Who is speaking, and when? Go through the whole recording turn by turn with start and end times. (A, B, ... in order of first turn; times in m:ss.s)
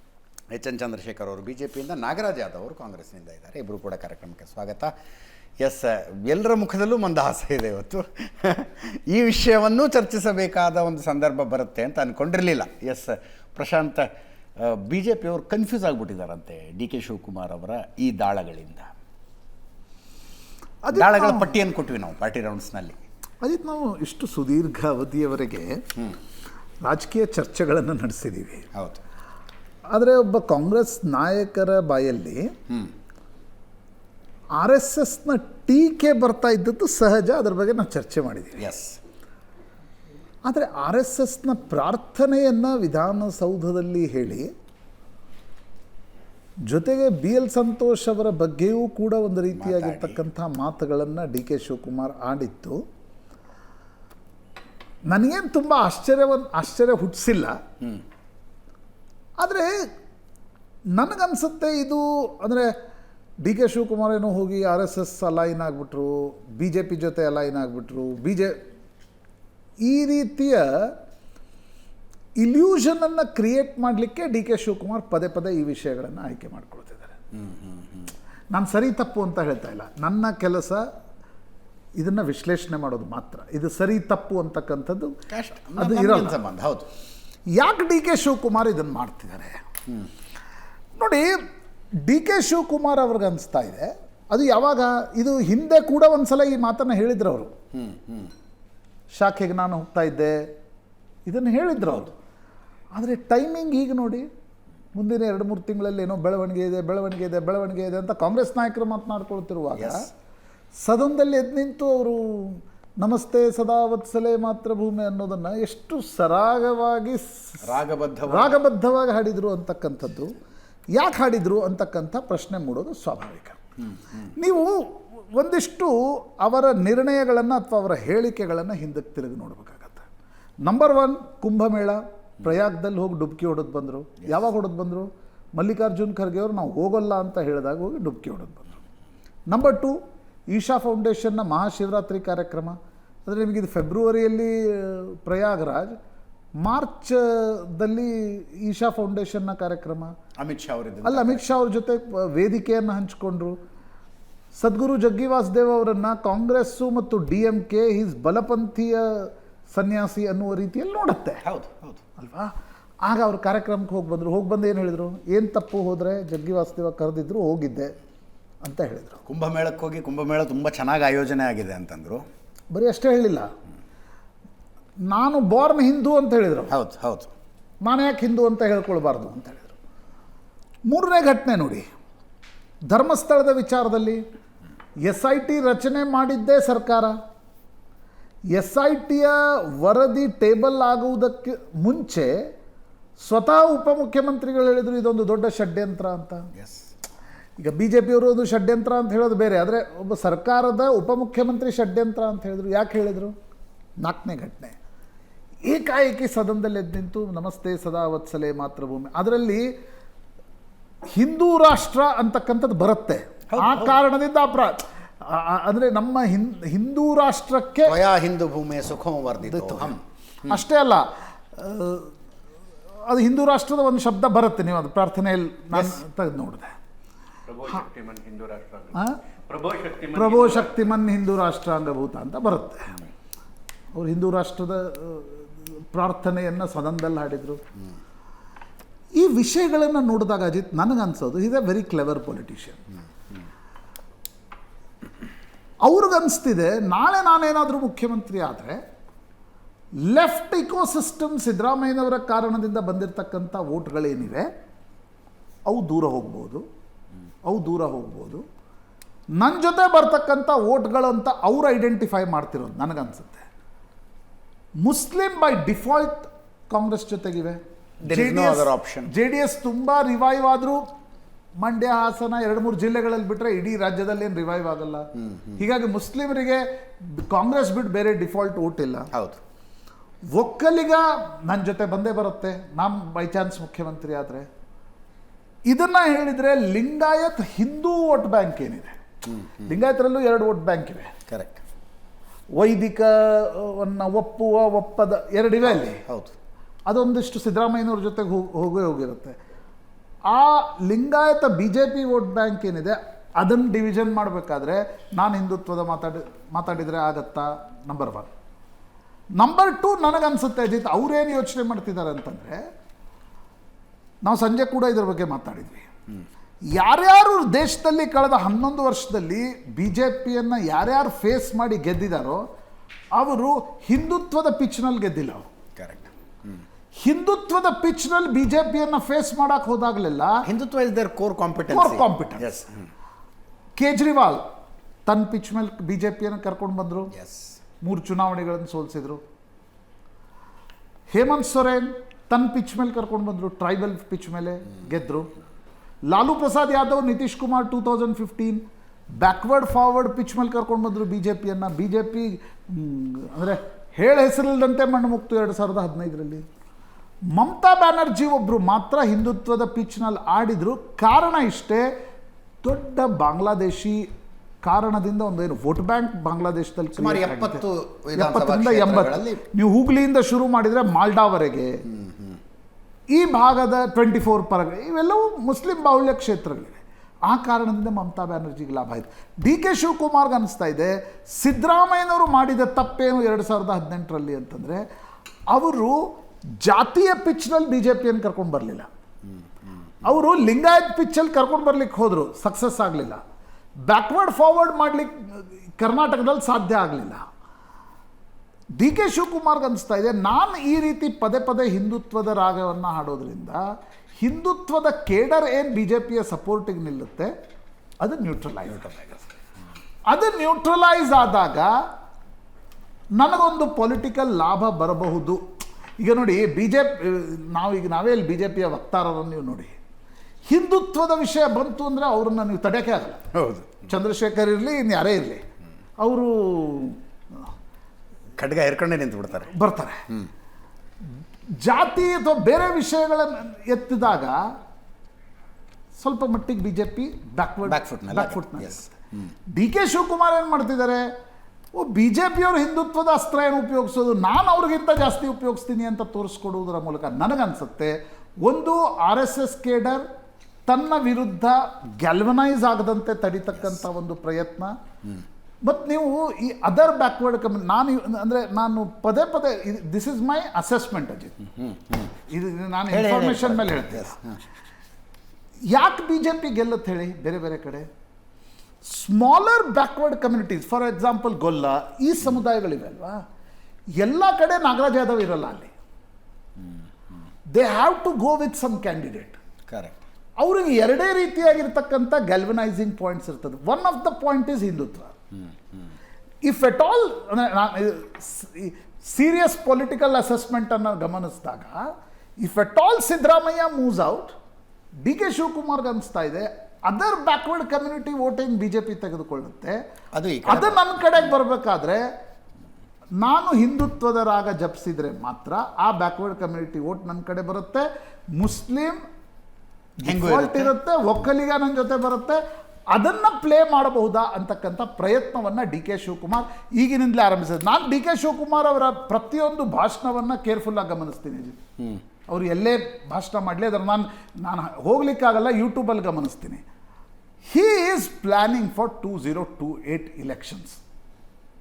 0:00.5-0:04.9 A
0:05.6-0:18.9 A
0:20.8-0:21.5 B
0:20.9-0:23.0 A
0:23.4-0:25.8 B
0:26.8-0:28.7 B
0:28.7-0:29.0 A
0:29.9-0:32.5 B
0:34.6-0:38.6 B
0:38.6-0:39.0 A
0:40.5-0:44.5 B
0:46.7-0:52.8 B
0:49.5-0:50.2 A
0:55.1-0:57.5 B
0:59.4-0:59.7 B
1:01.0-1:02.7 B
1:03.4-1:08.6 B
1:09.8-1:10.9 B
1:12.4-1:17.1 B
1:17.4-1:18.1 A
1:18.5-1:20.8 B
1:22.0-1:25.1 B
1:25.3-1:26.9 A
1:25.8-1:26.4 B
1:27.6-1:29.6 B
1:31.0-1:31.3 B
1:32.0-1:37.5 B
1:37.8-1:38.3 A
1:39.2-1:40.4 B
1:41.2-1:42.1 B
1:42.9-1:44.3 B
1:44.9-1:50.0 B
1:49.8-1:50.0 A
1:50.8-1:57.6 B
1:57.6-1:58.6 A
1:58.3-2:00.3 B
2:00.9-2:03.6 B
2:04.4-2:10.1 B
2:10.6-2:18.8 B
2:19.5-2:20.0 B
2:20.5-2:26.0 B
2:26.6-2:30.1 B
2:30.4-2:31.5 A
2:31.0-2:33.6 B
2:34.5-2:41.4 B
2:41.4-2:42.0 A
2:42.2-2:47.9 B
2:48.6-2:49.2 B
2:49.2-2:52.2 A
2:52.7-2:53.5 B
2:55.1-2:56.7 B
2:56.7-2:57.3 A
2:57.8-2:59.7 B
3:00.9-3:01.8 B
3:02.9-3:04.2 B
3:05.0-3:07.1 B
3:08.5-3:12.4 B
3:13.2-3:16.4 B
3:16.5-3:16.9 A
3:17.6-3:23.3 B
3:24.0-3:24.7 B
3:25.6-3:29.7 B
3:31.1-3:38.0 B
3:33.5-3:34.0 A
3:37.8-3:40.6 A
3:39.4-3:39.9 B
3:40.5-3:42.1 B
3:43.0-3:46.7 B
3:45.7-3:46.0 A
3:47.5-3:49.0 A
3:49.5-3:50.9 A
3:50.1-3:52.9 B
3:53.9-3:57.6 B
3:59.2-4:02.8 B
4:05.8-4:08.8 B
4:10.0-4:14.5 B
4:15.7-4:16.6 B
4:17.4-4:18.4 B
4:19.4-4:23.4 B
4:24.8-4:30.8 B
4:28.0-4:29.1 A
4:31.6-4:35.0 B
4:35.3-4:35.6 A
4:35.6-4:36.6 B
4:37.2-4:39.1 B
4:39.1-4:39.4 A
4:40.3-4:44.5 B
4:45.7-4:48.9 B
4:49.3-4:49.7 A
4:49.7-4:51.1 B
4:51.3-4:51.6 A
4:52.6-4:56.0 B
4:55.6-4:56.3 A
4:56.9-4:59.3 B
5:00.3-5:08.3 B
5:09.4-5:12.6 B
5:14.2-5:15.9 B
5:16.8-5:22.4 B
5:23.2-5:25.4 B
5:25.8-5:26.6 A
5:27.0-5:30.4 B
5:30.4-5:32.8 A
5:31.7-5:32.5 B
5:33.8-5:34.4 B
5:35.1-5:37.1 B
5:37.1-5:37.6 A
5:37.8-5:39.2 B
5:41.1-5:45.3 B
5:46.1-5:48.6 B
5:49.2-5:56.4 B
5:57.3-6:01.9 B
6:02.6-6:04.0 B
6:04.6-6:07.6 B
6:06.9-6:09.4 A
6:08.1-6:11.8 B
6:11.9-6:12.4 A
6:13.1-6:24.8 B
6:25.5-6:26.0 B
6:26.6-6:28.9 B
6:29.7-6:29.9 A
6:30.0-6:33.2 B
6:33.9-6:37.2 B
6:38.8-6:43.6 B
6:44.2-6:47.3 B
6:48.0-6:49.2 B
6:50.1-6:51.7 B
6:53.2-6:55.4 B
6:56.0-6:59.7 B
7:00.5-7:03.2 B
7:03.3-7:03.8 A
7:03.8-7:05.4 B
7:06.0-7:07.0 B
7:08.4-7:09.5 A
7:09.5-7:10.0 B
7:11.6-7:14.4 B
7:16.0-7:18.9 B
7:17.6-7:19.3 A
7:19.5-7:21.1 B
7:21.8-7:30.0 B
7:30.7-7:34.7 B
7:35.6-7:41.4 B
7:41.6-7:42.1 A
7:42.3-7:44.2 B
7:42.9-7:44.4 A
7:45.7-7:47.9 B
7:48.8-7:53.2 B
7:54.0-7:55.7 B
7:57.5-7:59.4 B
7:59.7-8:00.0 A
8:00.4-8:05.1 B
8:06.4-8:11.8 B
8:12.4-8:14.3 B
8:15.0-8:19.8 B
8:20.1-8:20.8 A
8:20.4-8:22.0 B
8:23.2-8:29.0 B
8:30.0-8:32.4 B
8:30.0-8:30.7 A
8:32.9-8:41.6 B
8:42.3-8:46.6 B
8:47.5-8:50.8 B